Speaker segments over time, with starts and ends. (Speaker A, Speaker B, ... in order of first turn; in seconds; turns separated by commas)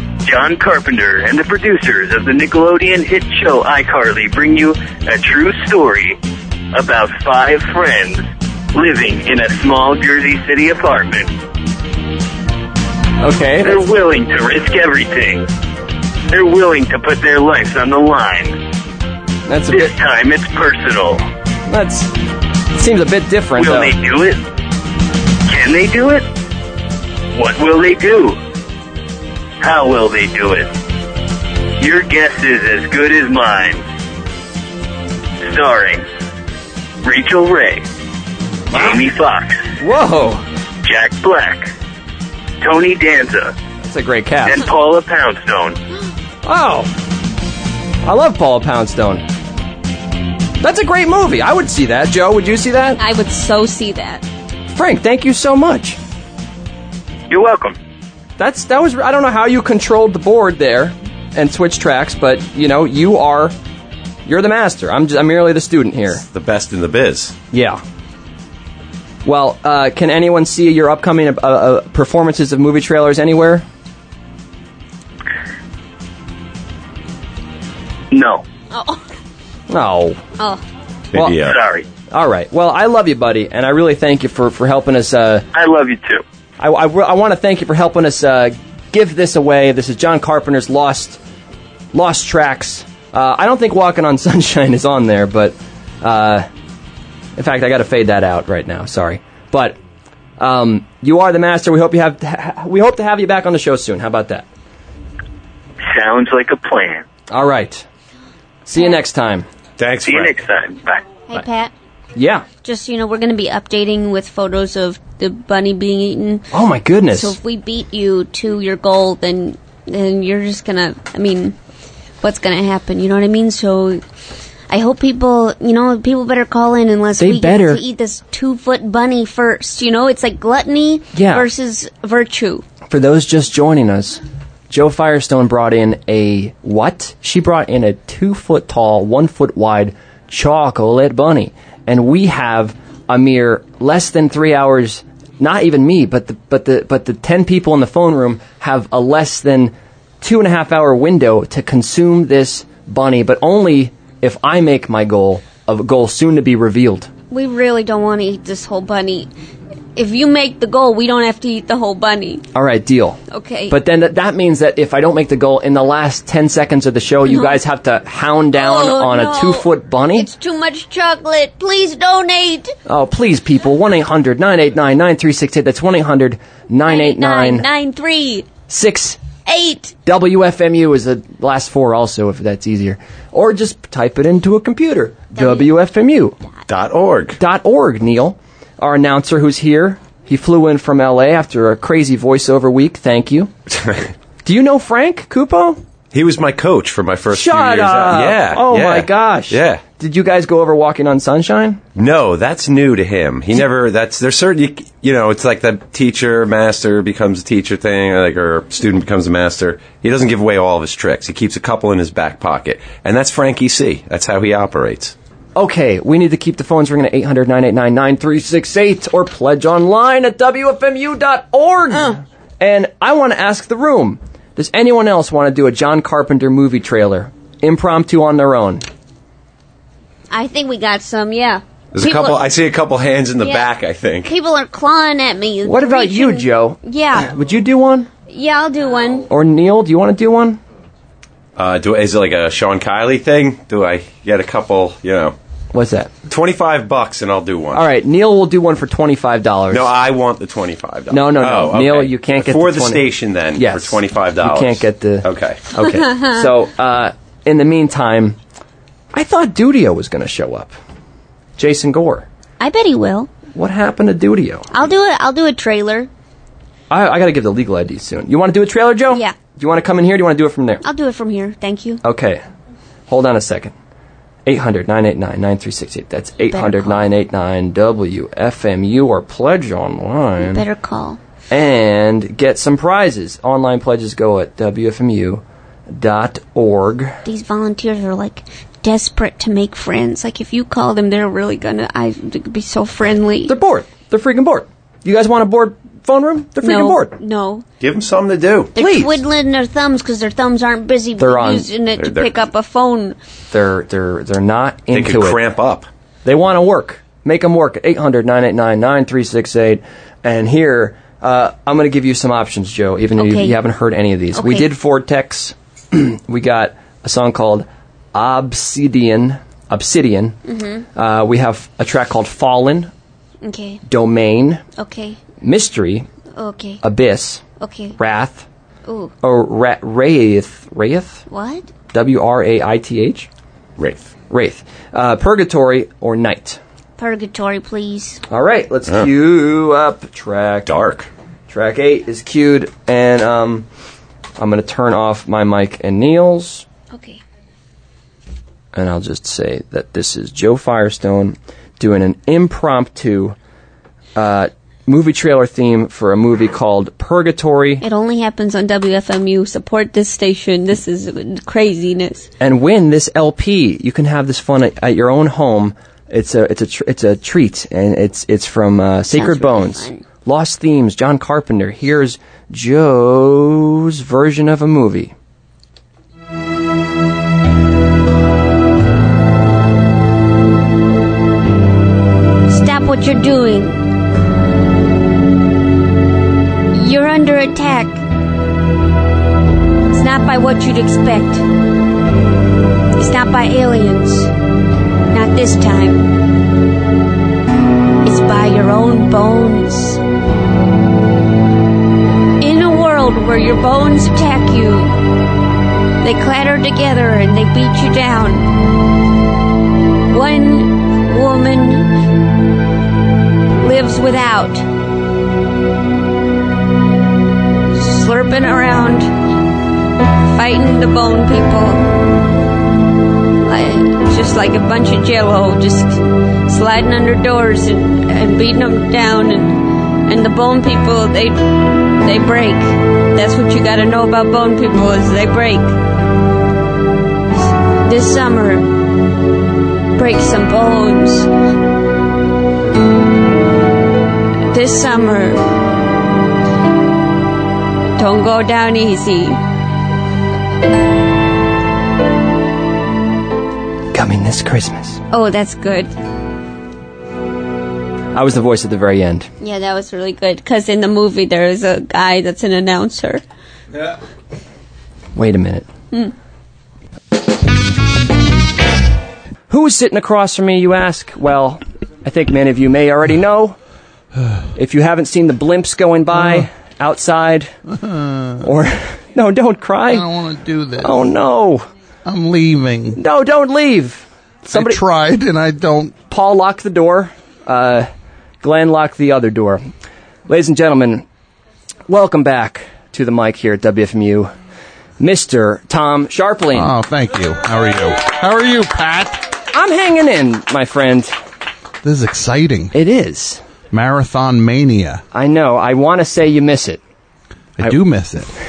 Speaker A: 0.2-6.2, Speaker A: 6.7-11.3, Speaker B: 13.2-13.8, Speaker A: 13.6-15.5, Speaker A: 16.3-18.6, Speaker B: 19.5-19.9, Speaker A: 19.7-21.3, Speaker B: 21.7-22.1, Speaker B: 22.7-23.9, Speaker A: 23.6-24.4, Speaker A: 25.5-26.3, Speaker A: 27.3-28.4, Speaker A: 29.6-30.7, Speaker A: 31.8-33.8, Speaker A: 35.4-36.0, Speaker A: 37.0-37.8, Speaker B: 38.7-39.0, Speaker A: 38.7-39.7, Speaker B: 39.8-40.4, Speaker A: 40.8-41.7, Speaker A: 42.6-43.6, Speaker B: 43.8-44.6, Speaker A: 44.5-45.8, Speaker B: 46.4-46.9, Speaker B: 48.0-49.2, Speaker B: 50.6-53.0, Speaker C: 53.0-54.2, Speaker B: 54.8-56.0, Speaker A: 57.3-57.8, Speaker B: 58.4-63.5, Speaker B: 64.3-66.2, Speaker D: 66.2-67.4, Speaker B: 67.5-67.8, Speaker B: 69.2-73.7, Speaker A: 78.1-78.5, Speaker C: 78.7-79.0, Speaker B: 79.7-80.2, Speaker D: 81.1-81.6, Speaker A: 81.4-81.9, Speaker B: 82.1-85.5, Speaker A: 85.5-86.2, Speaker B: 86.6-91.2, Speaker B: 91.9-96.5, Speaker B: 97.4-99.8, Speaker B: 100.4-104.5, Speaker A: 105.8-107.0, Speaker B: 107.3-107.9, Speaker B: 108.7-109.5, Speaker D: 109.8-110.4, Speaker A: 110.0-111.1, Speaker C: 111.3-111.7, Speaker B: 112.2-112.5, Speaker C: 112.6-116.5, Speaker B: 116.5-117.4, Speaker C: 117.1-121.6, Speaker C: 122.2-124.0, Speaker C: 124.7-132.7, Speaker B: 127.2-127.8, Speaker B: 131.1-131.5, Speaker B: 132.9-157.1, Speaker C: 157.3-159.3, Speaker C: 160.0-162.5, Speaker B: 162.5-170.3, Speaker C: 163.3-163.8, Speaker C: 167.2-167.6, Speaker C: 168.5-172.7, Speaker B: 172.9-177.7, Speaker C: 176.9-178.5, Speaker B: 178.7-179.2, Speaker C: 179.4-180.0, Speaker B: 180.1-186.4, Speaker C: 185.3-185.7, Speaker D: 186.7-187.4, Speaker B: 187.4-193.5, Speaker D: 193.7-194.1, Speaker B: 194.4-195.8, Speaker D: 196.1-199.8, Speaker B: 197.3-201.8, Speaker D: 202.0-215.1, Speaker B: 215.6-228.8, Speaker C: 230.3-232.5, Speaker D: 231.9-234.3, Speaker C: 233.4-233.7, Speaker C: 234.2-237.3, Speaker B: 235.6-238.1, Speaker C: 238.3-239.3, Speaker B: 239.3-240.6, Speaker D: 241.6-245.3, Speaker B: 245.7-246.1, Speaker D: 246.3-247.9, Speaker B: 247.7-249.9, Speaker D: 249.7-255.7, Speaker B: 251.1-258.4, Speaker B: 259.1-260.8, Speaker B: 261.6-262.3, Speaker C: 262.6-263.3, Speaker B: 263.5-264.7, Speaker C: 264.7-266.1, Speaker B: 266.9-270.8, Speaker C: 269.1-269.4, Speaker C: 270.8-272.0, Speaker B: 272.0-272.4, Speaker B: 273.1-273.7, Speaker B: 274.5-280.6, Speaker C: 276.5-277.1, Speaker C: 280.4-281.2, Speaker B: 281.5-287.2, Speaker C: 287.2-293.5, Speaker B: 293.5-297.1, Speaker C: 296.6-297.7, Speaker D: 297.8-298.8, Speaker C: 298.8-303.2, Speaker B: 298.8-299.2, Speaker B: 301.2-301.7, Speaker D: 301.9-302.4, Speaker B: 303.5-305.4, Speaker D: 304.9-305.9, Speaker B: 306.2-320.4, Speaker C: 313.2-313.6, Speaker C: 314.4-314.7, Speaker C: 320.4-320.9, Speaker B: 320.9-322.9, Speaker C: 323.4-323.8, Speaker B: 323.9-324.6, Speaker C: 324.8-325.2, Speaker B: 325.4-326.1, Speaker C: 326.4-326.8, Speaker B: 326.8-327.4, Speaker C: 327.6-328.0, Speaker B: 328.0-328.5, Speaker C: 328.9-329.1, Speaker B: 329.2-331.2, Speaker C: 331.3-331.7, Speaker B: 331.9-333.3, Speaker D: 333.8-334.1, Speaker B: 334.3-336.6, Speaker C: 337.0-338.2, Speaker B: 338.3-340.7, Speaker D: 340.7-341.1, Speaker B: 341.5-343.7, Speaker B: 344.4-346.6, Speaker C: 346.9-347.2, Speaker B: 348.8-353.4, Speaker B: 354.2-357.8, Speaker C: 357.8-362.3, Speaker B: 362.4-375.1, Speaker C: 369.1-370.1, Speaker C: 382.5-383.8, Speaker C: 386.7-388.0, Speaker C: 389.9-391.4, Speaker C: 393.0-394.3, Speaker C: 395.1-396.2, Speaker C: 398.0-400.0, Speaker C: 402.4-405.0, Speaker C: 406.0-408.5, Speaker C: 410.1-411.9, Speaker C: 413.6-414.6, Speaker C: 417.7-419.1, Speaker C: 420.4-421.9, Speaker C: 423.5-435.7, Speaker C: 437.9-438.8, Speaker C: 440.0-441.3, Speaker C: 444.5-445.4, Speaker C: 448.0-449.4, Speaker B: 453.9-455.0, Speaker C: 455.1-455.9, Speaker B: 458.1-459.3, Speaker C: 459.4-463.2, Speaker B: 465.1-465.7, Speaker B: 469.5-473.6, Speaker B: 474.6-477.5, Speaker E: 477.7-478.4, Speaker B: 478.4-480.1, Speaker E: 479.9-481.0, Speaker B: 480.8-481.7, Speaker E: 482.1-483.0, Speaker B: 483.0-484.8, Speaker E: 484.5-486.0, Speaker B: 486.1-487.9, Speaker B: 488.4-489.7, Speaker B: 490.3-491.1, Speaker B: 491.9-494.3, Speaker B: 495.0-496.7, Speaker E: 496.5-499.3, Speaker B: 499.5-501.1, Speaker E: 501.8-502.7, Speaker B: 502.7-503.4, Speaker E: 503.7-505.0, Speaker B: 505.1-506.8, Speaker E: 507.6-508.3